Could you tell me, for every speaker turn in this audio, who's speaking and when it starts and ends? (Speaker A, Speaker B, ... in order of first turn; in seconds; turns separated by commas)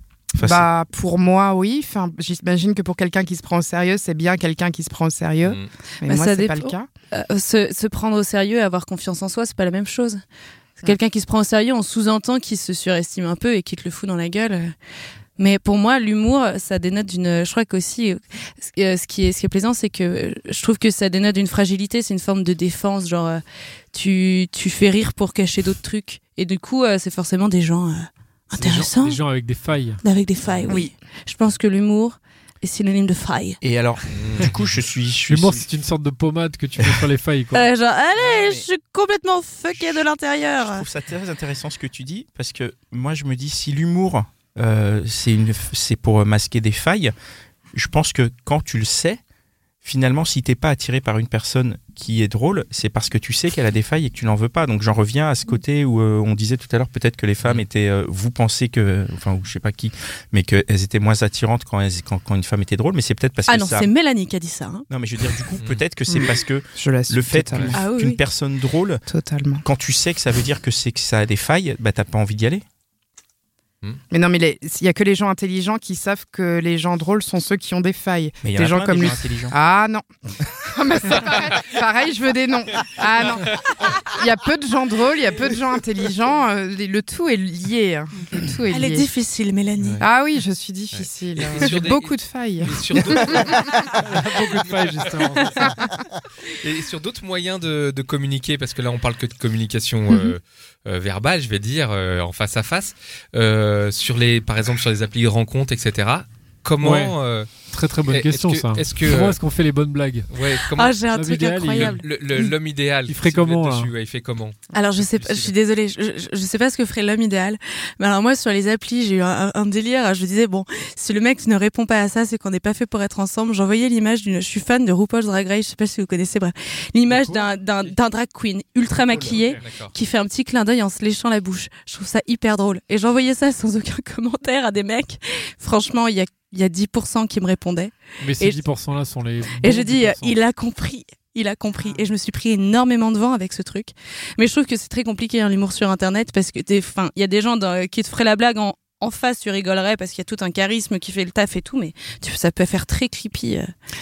Speaker A: 0.3-0.7, Speaker B: 0.4-6.9, Speaker C: 5.4-5.7, Speaker D: 6.0-10.2, Speaker D: 10.8-14.8, Speaker D: 15.4-23.4, Speaker D: 23.9-29.2, Speaker E: 28.6-30.0, Speaker D: 30.0-33.6, Speaker A: 33.6-35.7, Speaker C: 34.1-34.8, Speaker E: 35.3-37.6, Speaker D: 37.5-40.9, Speaker A: 38.2-38.6, Speaker A: 40.6-47.1, Speaker A: 47.7-49.2, Speaker A: 49.8-63.9, Speaker D: 63.5-64.8, Speaker A: 64.9-69.0, Speaker B: 66.1-67.8, Speaker D: 67.7-68.2, Speaker B: 69.1-69.6, Speaker A: 69.6-72.6, Speaker B: 74.1-89.1, Speaker A: 78.4-79.5, Speaker D: 88.7-90.0, Speaker B: 90.0-93.8, Speaker C: 90.9-95.5, Speaker E: 94.0-95.8, Speaker D: 95.4-95.7, Speaker C: 96.5-107.5, Speaker E: 106.8-107.2, Speaker E: 107.7-110.3, Speaker C: 108.1-109.4, Speaker C: 110.3-111.0, Speaker D: 110.7-112.1, Speaker E: 111.1-112.5, Speaker C: 111.7-115.5, Speaker E: 113.1-113.9, Speaker D: 114.7-138.6, Speaker E: 127.1-127.5, Speaker E: 129.1-129.6, Speaker C: 129.6-129.9, Speaker E: 138.2-140.4, Speaker D: 139.6-153.7